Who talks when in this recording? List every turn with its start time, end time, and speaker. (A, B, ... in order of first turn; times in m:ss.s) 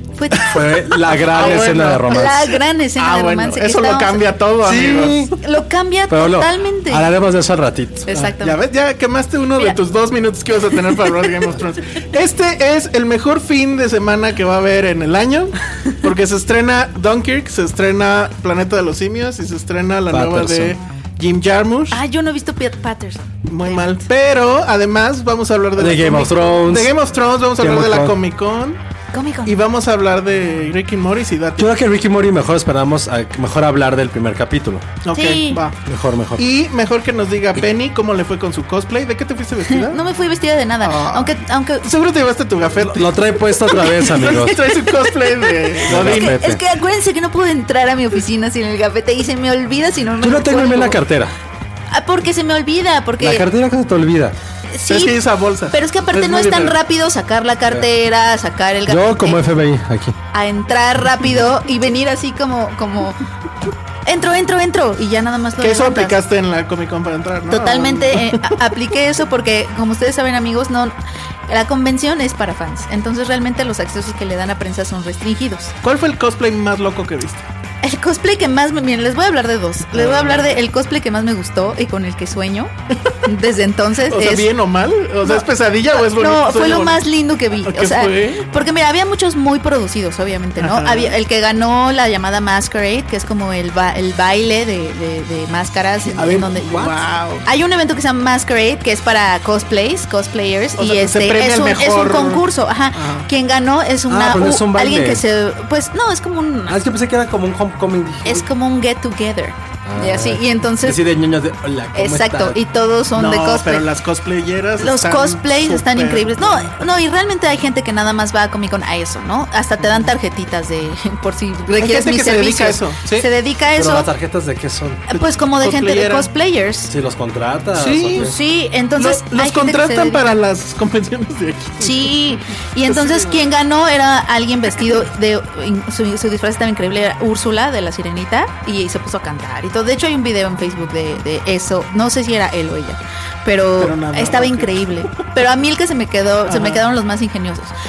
0:00.2-0:04.4 A
0:00.4-0:02.6 B
0:01.1-0:05.3 C
0:04.6-0:05.4 B
0:05.4-0:07.1 A
0:06.1-0:08.3 B
0:08.1-0:08.6 A
0:08.4-0:22.0 C
0:20.1-0:20.8 B
0:21.9-0:24.0 A
0:23.5-0:28.8 C
0:25.8-0:26.9 B
0:27.6-0:28.2 B
0:29.1-0:29.6 A
0:29.4-0:31.7 C
0:31.6-0:34.9 B
0:35.0-0:35.8 C
0:35.1-0:35.6 A
0:35.9-0:36.4 B
0:36.4-0:40.0 C
0:39.7-0:41.9 A
0:40.8-0:46.4 C
0:42.8-0:44.6 B
0:43.7-0:51.0 A
0:45.9-0:46.6 B
0:50.2-0:51.4 B
0:51.9-0:53.5 A
0:53.2-0:54.4 B
0:54.7-0:55.2 A
0:54.9-0:56.7 C
0:55.7-0:59.5 A
0:58.9-1:00.2 B
1:00.3-1:03.2 A
1:04.1-1:06.2 A
1:05.6-1:08.6 C
1:07.5-1:10.9 A
1:11.5-1:15.7 A
1:15.8-1:17.5 C
1:17.8-1:22.7 A
1:19.9-1:20.6 C
1:23.2-1:24.5 A
1:24.1-1:27.0 C
1:25.2-1:46.8 A
1:27.6-1:28.5 C
1:30.6-1:31.2 C
1:36.1-1:37.0 B
1:36.8-1:37.4 C
1:40.8-1:43.3 C
1:44.1-1:45.2 B
1:46.7-1:48.5 B
1:48.2-1:51.0 A
1:49.8-1:52.6 B
1:51.9-1:53.9 A
1:53.1-1:56.7 C
1:54.8-2:04.1 A
2:01.8-2:03.3 C
2:03.8-2:05.0 B
2:05.1-2:06.9 A
2:05.1-2:06.3 C
2:06.9-2:08.4 B
2:07.8-2:08.3 C
2:08.2-2:10.2 A
2:09.0-2:12.2 C
2:11.8-2:27.7 A
2:12.9-2:13.5 C
2:23.8-2:25.1 C
2:26.5-2:26.8 C